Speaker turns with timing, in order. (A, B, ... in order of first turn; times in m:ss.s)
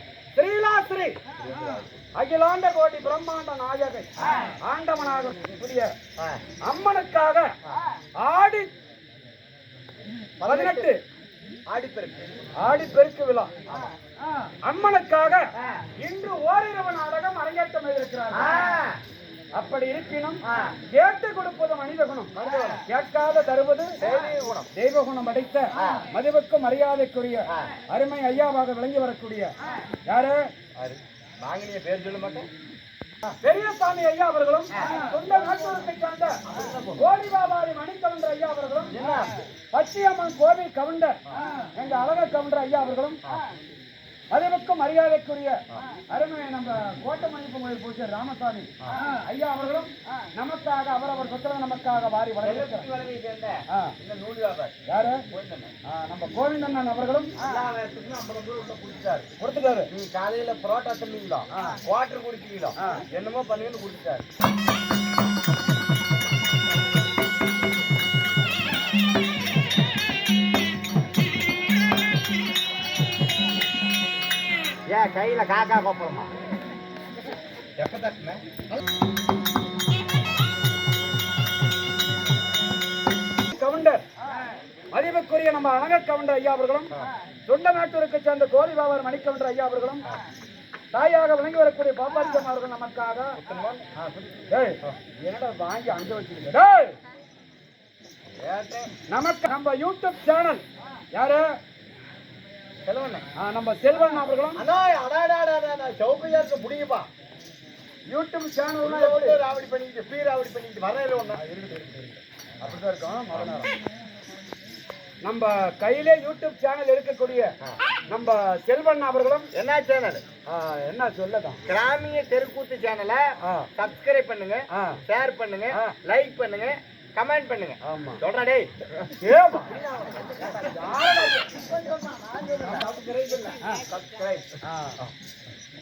0:00.3-0:01.2 A
0:01.4-0:02.0 B
0:02.1-0:05.9 A
0:06.2-0:06.4 B
0:06.6-0:07.5 A
0:08.2-0:08.7 A
0:10.4-0:10.9 B
0:10.4-0:11.0 A
0:11.7-0:12.4 B
0:12.6-0:13.5 A
0:14.6-0:18.6 A
0:18.3-0:19.0 B
0:19.6-0:22.3 A
0:20.4-0:20.7 B
0:22.3-0:22.8 B
0:22.9-0:24.0 A
0:24.0-0:24.7 B
0:24.7-0:29.5 A
0:25.7-0:26.1 B
0:27.5-0:27.7 B
0:30.0-0:30.4 A
0:30.8-0:32.5 B
0:33.4-0:36.4 A
0:34.8-0:35.0 B
0:36.4-0:37.0 B
0:37.0-0:39.0 A
0:38.9-0:39.4 B
0:39.7-0:43.2 A
0:44.3-0:52.9 A
0:52.4-0:54.7 B
0:54.9-0:55.2 A
0:55.3-0:55.7 B
0:55.9-0:57.3 A
0:57.4-0:59.3 B
0:59.4-0:59.9 A
0:59.9-1:04.2 B
1:02.8-1:03.0 A
1:14.9-1:16.3 B
1:17.8-1:18.8 B
1:23.5-1:24.0 A
1:24.9-1:26.9 A
1:27.5-1:30.0 A
1:30.9-1:33.4 A
1:33.4-1:33.9 B
1:34.0-1:37.0 A
1:38.3-1:38.9 B
1:39.1-1:40.6 A
1:41.1-1:41.4 A
1:42.8-1:43.2 B
1:43.4-1:44.6 A
1:44.5-1:47.1 B
1:48.1-1:49.4 A
1:48.8-1:51.4 B
1:51.4-1:53.7 A
1:55.2-1:57.5 A
1:58.1-1:59.5 A
1:59.5-2:00.2 B
2:00.5-2:01.6 A
2:01.7-2:08.7 B
2:03.4-2:03.7 A
2:04.7-2:05.0 A
2:07.8-2:08.2 A
2:09.0-2:09.7 A
2:09.6-2:15.1 B
2:10.5-2:11.5 A
2:12.6-2:13.8 A
2:14.6-2:15.0 A